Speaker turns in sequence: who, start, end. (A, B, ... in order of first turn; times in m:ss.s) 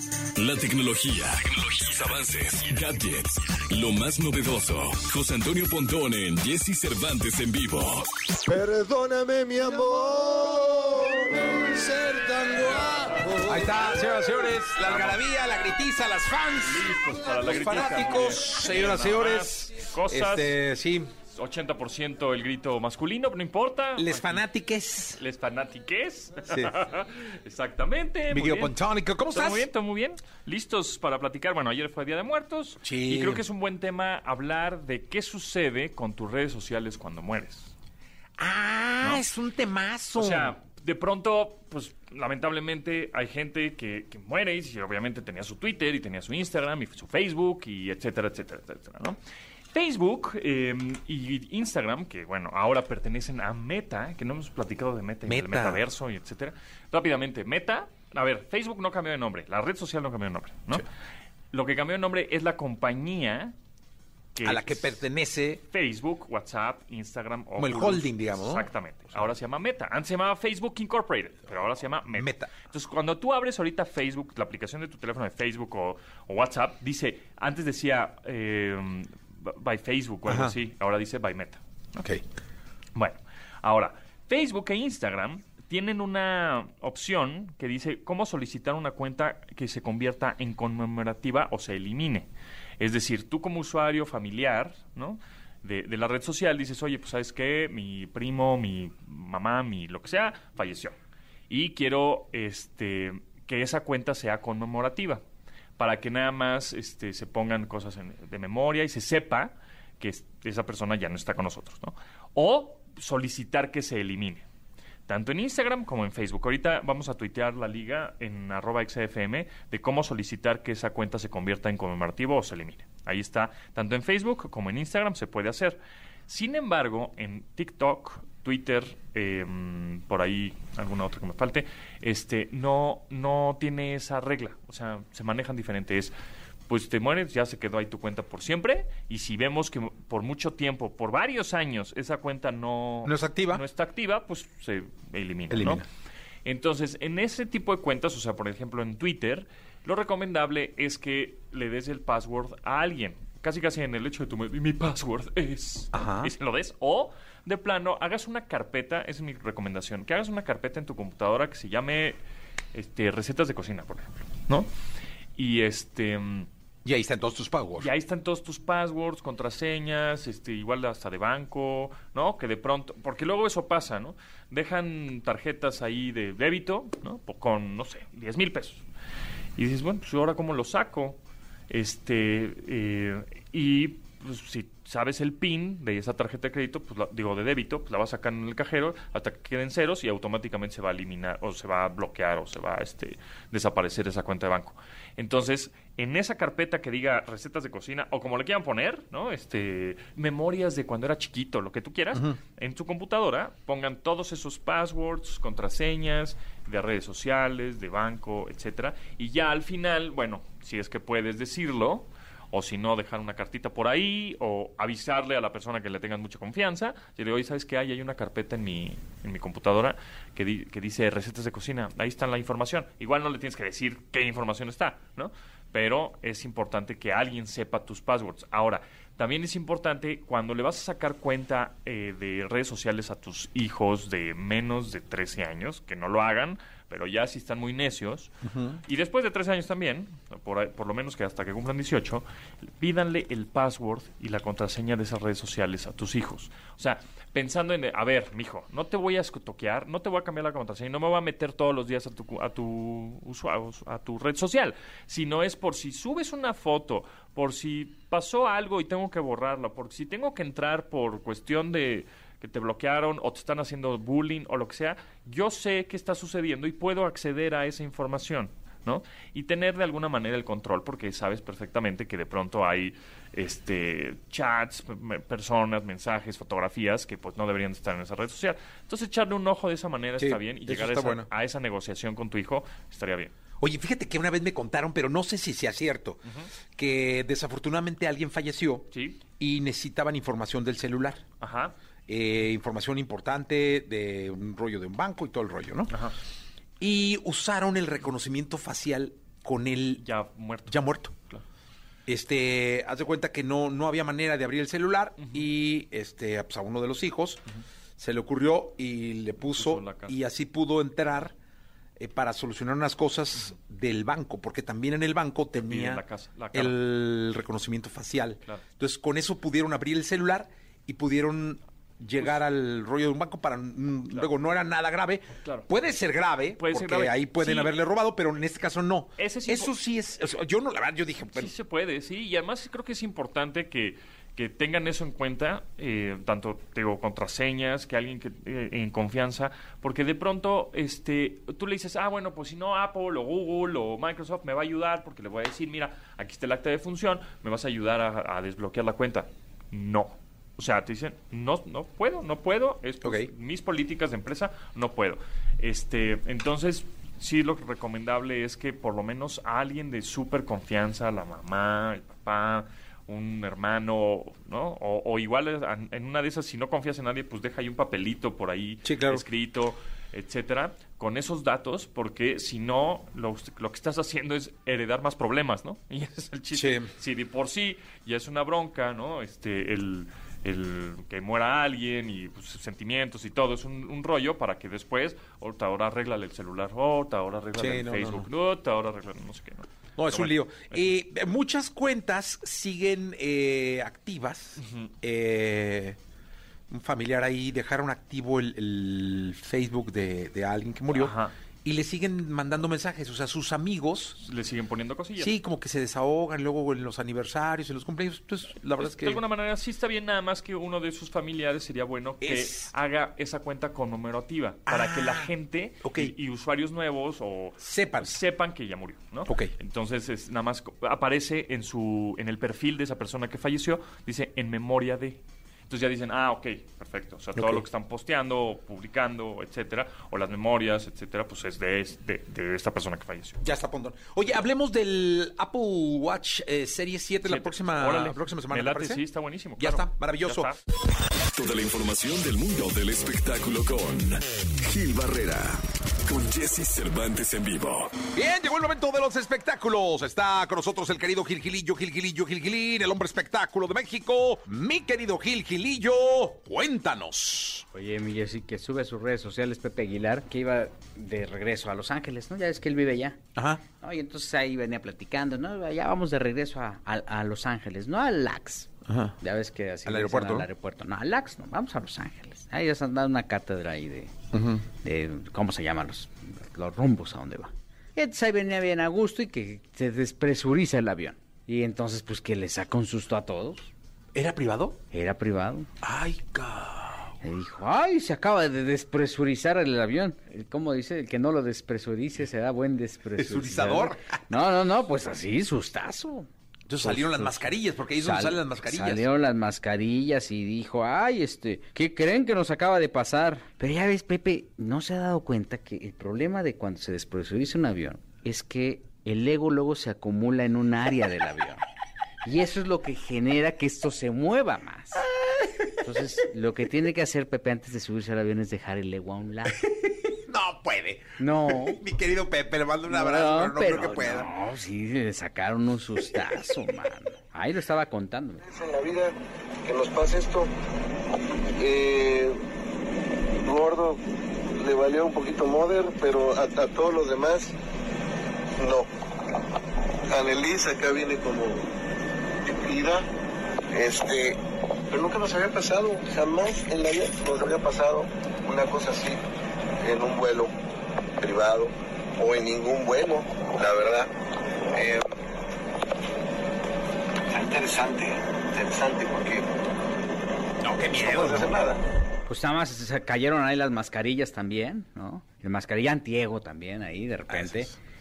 0:00.4-0:08.1 A
0:08.5-0:13.4 B
0:13.4-0:21.1 C
0:14.8-0:15.2 D
0:16.6-0:20.6 D
0:21.3-0:24.5 D
0:24.0-0:25.2 C
0:25.1-0:28.8 D
0:28.3-0:29.7 C
0:29.3-0:37.7 D
0:32.8-0:33.4 C
0:38.4-0:40.6 C
0:40.2-0:49.2 D
0:49.7-1:00.9 D
0:55.3-0:55.8 C
1:01.5-1:03.6 D
1:04.4-1:05.0 D
1:04.4-1:05.6 C
1:05.6-1:22.1 D
1:07.6-1:08.7 C
1:12.1-1:12.6 C
1:20.3-1:20.6 C
1:23.0-1:32.3 D
1:32.8-1:41.0 D
1:41.5-1:45.2 D
1:45.8-1:54.4 D
1:55.1-2:16.1 D
2:16.7-2:25.9 D
2:23.0-2:23.6 C
2:25.5-2:25.8 C
2:26.4-2:42.2 D
2:35.9-2:36.3 C
2:42.7-2:44.7 D
2:45.4-2:46.5 D
2:46.8-2:47.9 C
2:47.8-2:58.8 D
2:59.6-3:01.2 D
3:01.7-3:58.3 D
3:58.4-3:58.8 C
3:58.8-4:43.3 D
4:40.2-4:41.3 C
4:43.6-4:46.2 C
4:46.8-4:51.2 C
4:48.9-4:49.2 D
4:51.4-4:51.7 D
4:52.1-4:55.9 C
4:55.9-4:56.2 D
4:56.8-5:00.0 C
5:00.0-5:01.4 D
5:00.7-5:01.1 C
5:02.1-5:07.4 C
5:05.2-5:05.5 D
5:08.0-5:11.4 C
5:09.4-5:10.2 D
5:12.0-5:31.5 C
5:15.6-5:16.8 D
5:25.4-5:25.7 D
5:26.5-5:27.8 D
5:29.2-5:29.8 D
5:31.3-6:31.0 D
5:53.0-5:53.3 C
6:08.8-6:09.2 C
6:16.6-6:16.9 C
6:27.6-6:28.3 C
6:30.0-6:36.0 C
6:34.6-6:34.9 D
6:36.7-6:44.2 C
6:40.9-6:41.3 D
6:44.2-6:45.4 D
6:45.2-6:49.2 C
6:48.8-7:13.4 D
6:52.2-6:52.7 C
6:54.7-6:55.3 C
6:55.8-6:56.1 C
6:57.6-6:58.1 C
6:59.3-6:59.5 C
7:07.4-7:07.6 C
7:13.4-7:19.0 C
7:17.2-7:20.6 D
7:19.6-7:20.5 C
7:21.4-7:28.0 A
7:28.1-7:37.6 C
7:37.7-7:43.2 E
7:43.4-7:43.6 C
7:43.8-7:54.1 E
7:48.9-7:49.2 C
7:49.9-7:50.5 C
7:54.3-7:54.6 C
7:54.8-8:03.7 E
8:04.1-8:04.8 C
8:04.9-8:05.7 E
8:05.8-8:07.1 C
8:07.2-8:16.3 E
8:13.2-8:14.2 C
8:16.7-8:19.0 C
8:16.8-8:31.6 E
8:32.2-8:35.1 E
8:35.8-8:39.7 E
8:39.8-8:44.3 C
8:41.2-8:41.8 E
8:42.9-8:48.4 E
8:48.4-8:49.1 F
8:49.6-8:50.5 F
8:51.6-8:52.4 F
8:53.4-8:54.0 F
8:54.6-8:57.5 F
8:58.6-8:58.9 F
9:00.1-9:01.7 F
9:02.5-9:03.0 F
9:03.8-9:04.4 F
9:04.9-9:09.2 F
9:09.8-9:10.5 F
9:11.2-9:14.1 F
9:14.8-9:15.1 F
9:17.3-9:19.5 F
9:20.6-9:21.6 C
9:21.0-9:21.8 F
9:22.3-9:27.7 E
9:27.3-9:27.7 C